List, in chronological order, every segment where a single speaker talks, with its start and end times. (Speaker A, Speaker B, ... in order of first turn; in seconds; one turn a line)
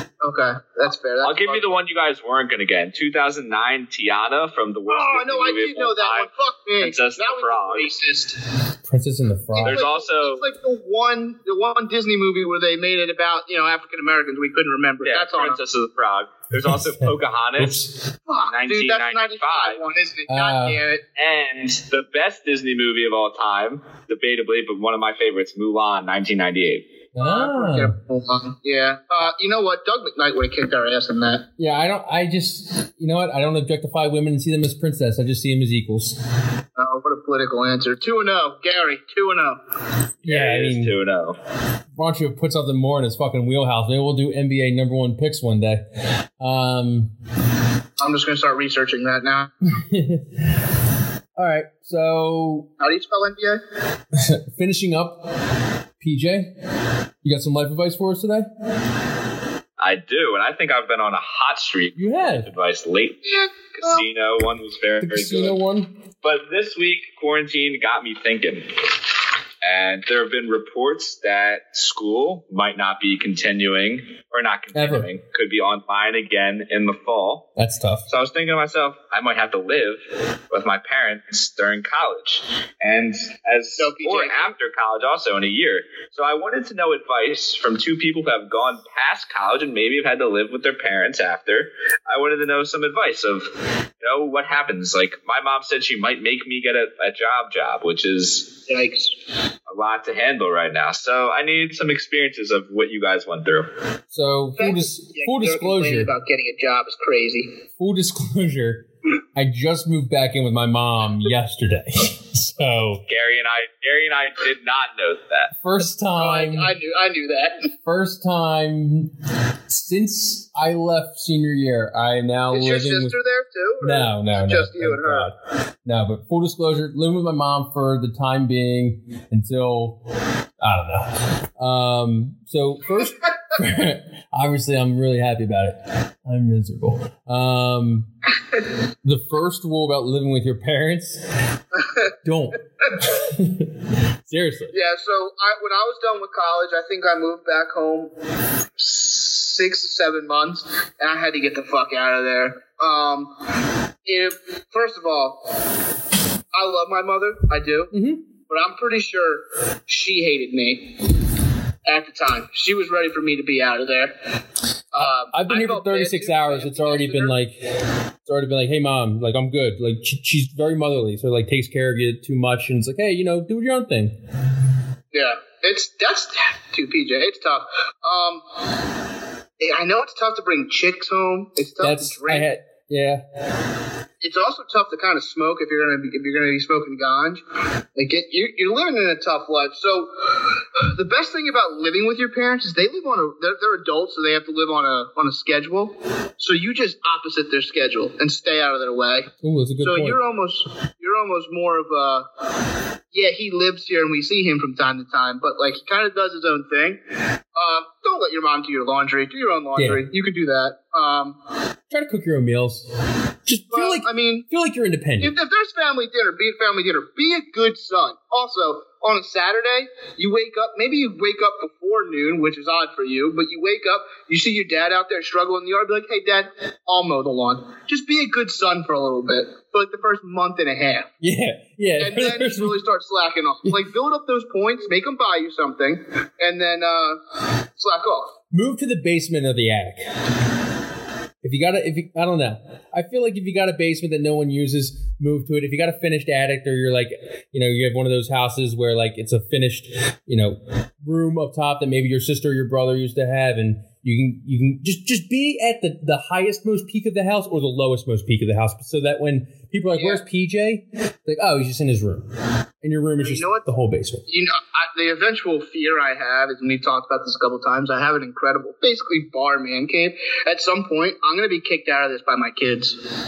Speaker A: 0.2-1.8
Speaker B: 1.2-6.3
Speaker A: 4.9-8.4
Speaker B: 6.8-7.9
Speaker C: 8.8-9.8
Speaker A: 9.5-15.6
Speaker B: 9.6-10.4
Speaker B: 15.0-17.8
Speaker C: 16.6-18.0
Speaker A: 18.3-21.0
Speaker B: 18.5-19.8
Speaker C: 20.3-20.8
Speaker B: 21.2-26.9
Speaker C: 27.1-27.9
Speaker A: 27.2-31.4
Speaker C: 31.6-36.2
Speaker A: 36.8-39.6
Speaker B: 40.2-41.4
Speaker C: 40.2-40.9
Speaker C: 42.0-47.1
Speaker A: 48.0-49.5
Speaker C: 49.6-50.6
Speaker C: 51.4-52.7
Speaker A: 52.8-53.6
Speaker C: 54.1-55.2
Speaker C: 56.0-56.5
Speaker C: 57.2-58.5
Speaker B: 59.8-65.6
Speaker C: 62.0-62.5
Speaker A: 63.3-64.0
Speaker C: 65.0-65.9
Speaker B: 66.2-68.7
Speaker B: 69.6-77.5
Speaker C: 74.7-75.1
Speaker C: 77.6-78.0
Speaker B: 78.1-93.5
Speaker A: 83.8-84.5
Speaker B: 94.0-98.5
Speaker A: 98.7-99.2
Speaker B: 99.7-103.7
Speaker C: 104.1-106.1
Speaker A: 104.6-107.5
Speaker C: 107.8-113.0
Speaker B: 113.0-115.5
Speaker C: 115.5-116.7
Speaker A: 116.2-117.7
Speaker C: 117.8-119.1
Speaker C: 119.7-123.1
Speaker A: 122.5-125.3
Speaker C: 123.8-130.0
Speaker C: 130.6-138.1
Speaker C: 139.0-141.2
Speaker C: 142.2-143.7
Speaker C: 144.2-144.7
Speaker A: 144.7-148.1
Speaker A: 148.8-153.3
Speaker A: 154.0-155.4
Speaker A: 156.5-157.9
Speaker C: 157.9-158.2
Speaker A: 158.4-161.0
Speaker A: 161.8-164.1
Speaker A: 164.9-167.3
Speaker C: 165.0-174.1
Speaker A: 175.1-178.4
Speaker A: 179.6-182.5
Speaker C: 181.8-183.2
Speaker A: 184.2-187.4
Speaker A: 187.9-202.2
Speaker C: 199.4-200.2
Speaker A: 203.1-207.0
Speaker A: 207.5-211.4
Speaker C: 209.8-210.0
Speaker C: 211.9-212.9
Speaker C: 213.4-215.3
Speaker A: 213.7-214.4
Speaker A: 215.2-231.1
Speaker C: 231.2-232.8
Speaker A: 232.0-237.2
Speaker A: 237.8-238.3
Speaker C: 238.5-240.1
Speaker C: 241.4-262.2
Speaker A: 260.0-260.2
Speaker C: 262.8-264.2
Speaker A: 263.2-263.6
Speaker A: 264.3-273.0